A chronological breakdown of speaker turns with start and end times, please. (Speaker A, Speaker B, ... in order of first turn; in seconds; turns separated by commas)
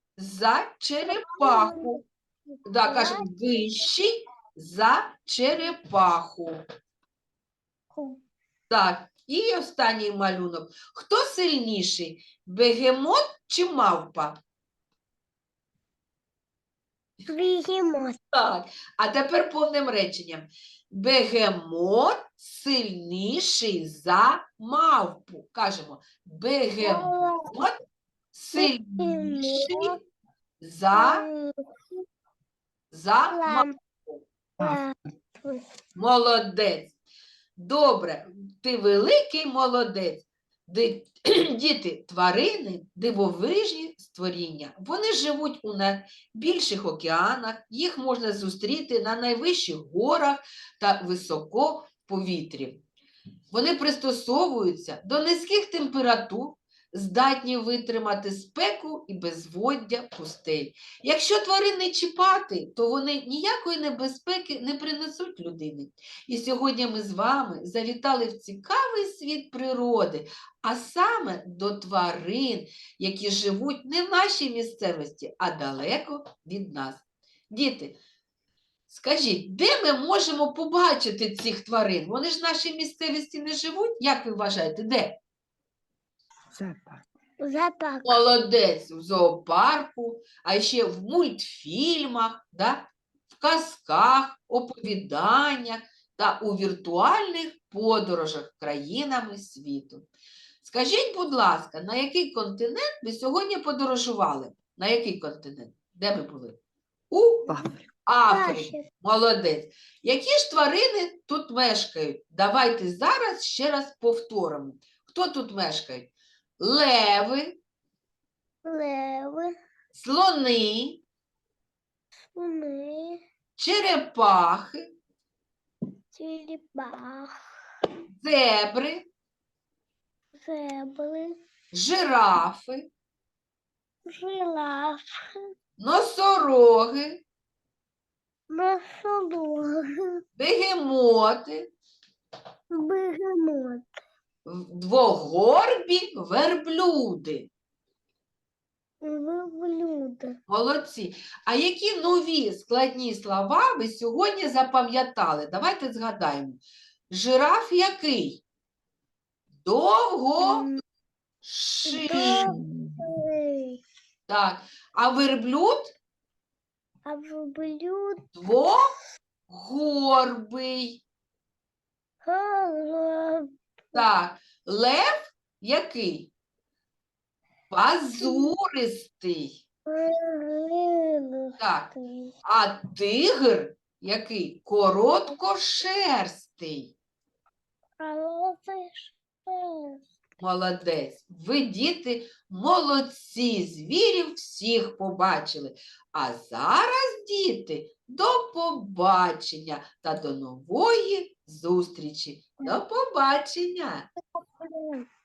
Speaker A: 0.2-2.0, Speaker B: 1.1-3.3, Speaker A: 2.6-6.6, Speaker B: 7.9-8.2, Speaker A: 8.7-14.3, Speaker B: 17.3-18.2, Speaker A: 18.3-27.7, Speaker B: 26.8-27.6, Speaker A: 28.3-29.9, Speaker B: 28.5-30.0, Speaker A: 30.6-31.2, Speaker B: 30.9-31.5, Speaker A: 32.9-34.2, Speaker B: 33.3-33.7, Speaker B: 34.6-35.6, Speaker A: 36.0-36.9, Speaker A: 37.6-52.8, Speaker A: 53.5-78.0, Speaker A: 78.9-85.2, Speaker C: 86.5-87.1, Speaker B: 87.4-88.2, Speaker A: 88.0-100.0, Speaker A: 100.6-106.6, Speaker A: 107.1-107.5, Speaker C: 107.5-107.9, Speaker A: 108.0-117.6, Speaker B: 108.3-108.8, Speaker B: 118.6-119.5, Speaker A: 119.9-121.0, Speaker B: 122.3-123.2, Speaker A: 123.6-124.8, Speaker B: 126.1-127.3, Speaker A: 128.2-129.0, Speaker B: 130.3-131.3, Speaker A: 131.7-132.9, Speaker B: 134.1-135.4, Speaker A: 135.8-137.2, Speaker B: 138.5-140.2, Speaker A: 140.3-141.7, Speaker B: 142.7-143.9, Speaker A: 144.4-147.5, Speaker B: 149.0-150.4, Speaker A: 150.5-158.4, Speaker A: 159.6-160.7, Speaker B: 160.4-160.8, Speaker A: 161.4-162.5, Speaker B: 161.9-163.8, Speaker C: 162.1-163.1, Speaker A: 164.3-165.9, Speaker B: 167.0-168.3, Speaker A: 168.3-168.8, Speaker A: 169.5-171.0, Speaker B: 172.2-174.1, Speaker A: 173.9-176.3, Speaker A: 177.7-179.6, Speaker B: 178.2-178.5, Speaker B: 179.9-182.3, Speaker A: 181.6-181.9, Speaker A: 182.4-186.9, Speaker B: 188.0-190.0, Speaker A: 190.4-204.1, Speaker B: 204.4-205.0